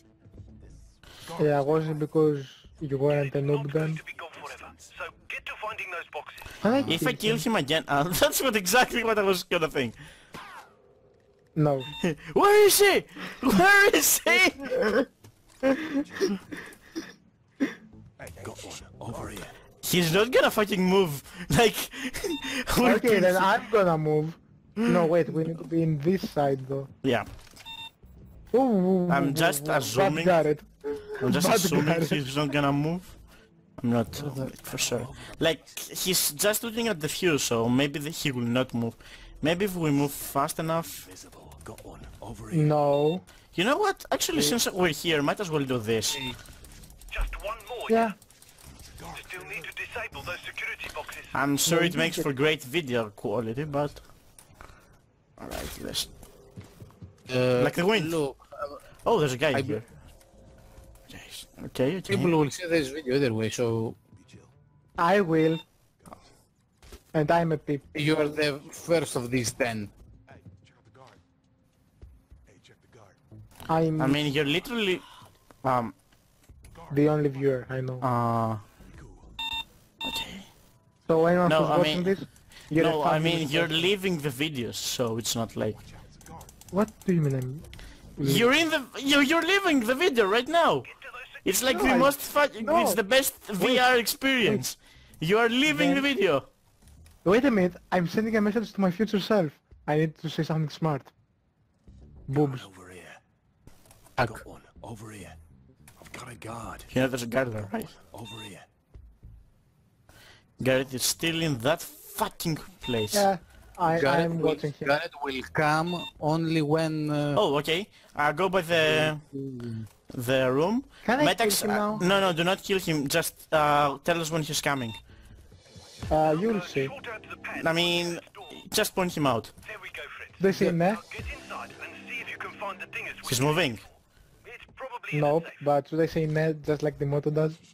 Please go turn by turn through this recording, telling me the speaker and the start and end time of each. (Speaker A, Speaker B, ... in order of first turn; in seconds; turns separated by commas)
Speaker A: 1.4-4.0, Speaker B: 3.1-6.5, Speaker C: 4.3-4.9, Speaker A: 6.6-7.5, Speaker D: 6.6-6.9, Speaker E: 6.8-10.0, Speaker A: 11.6-11.9, Speaker E: 12.0-14.8, Speaker A: 14.7-15.1, Speaker A: 15.6-16.4, Speaker C: 18.4-19.4, Speaker E: 19.1-23.5, Speaker A: 22.8-26.9, Speaker A: 28.5-32.2, Speaker E: 29.1-30.4, Speaker E: 31.2-33.2, Speaker E: 33.8-41.1, Speaker D: 34.1-35.0, Speaker C: 41.1-42.5, Speaker A: 42.5-43.2, Speaker E: 43.5-46.2, Speaker D: 46.1-46.4, Speaker B: 47.1-48.1, Speaker A: 47.9-48.2, Speaker B: 49.1-51.3, Speaker E: 51.3-54.0, Speaker A: 51.7-52.3, Speaker E: 55.4-56.1, Speaker D: 57.3-58.8, Speaker E: 57.6-58.2, Speaker E: 59.0-59.9, Speaker D: 59.5-59.8, Speaker E: 61.1-62.3, Speaker D: 62.1-64.0, Speaker A: 65.0-65.6, Speaker A: 67.1-68.4, Speaker D: 67.9-69.9, Speaker A: 73.7-74.3, Speaker E: 74.0-75.1, Speaker E: 75.6-76.0, Speaker A: 76.9-78.0, Speaker E: 78.0-78.6, Speaker E: 80.0-80.5, Speaker A: 81.1-83.9, Speaker E: 81.5-82.2, Speaker E: 82.7-85.8, Speaker A: 86.7-87.6, Speaker A: 88.2-88.5, Speaker E: 88.2-90.9, Speaker B: 90.9-91.4, Speaker E: 91.4-96.5, Speaker A: 91.7-93.0, Speaker A: 93.6-93.9, Speaker A: 95.7-96.1, Speaker A: 97.2-101.1, Speaker A: 102.3-102.7, Speaker C: 102.3-103.2, Speaker D: 104.2-104.4, Speaker C: 104.2-105.4, Speaker C: 106.0-106.9, Speaker E: 106.9-107.9, Speaker C: 108.1-108.6, Speaker E: 110.6-113.3, Speaker A: 113.1-114.9, Speaker D: 113.9-117.4, Speaker E: 117.4-119.2, Speaker D: 118.8-119.9, Speaker E: 120.1-125.0, Speaker A: 121.0-122.1, Speaker A: 126.1-126.9, Speaker B: 126.2-128.5, Speaker E: 127.6-129.5, Speaker B: 129.7-133.9, Speaker A: 130.4-131.0, Speaker E: 133.2-133.8, Speaker B: 134.4-135.6, Speaker A: 135.1-137.6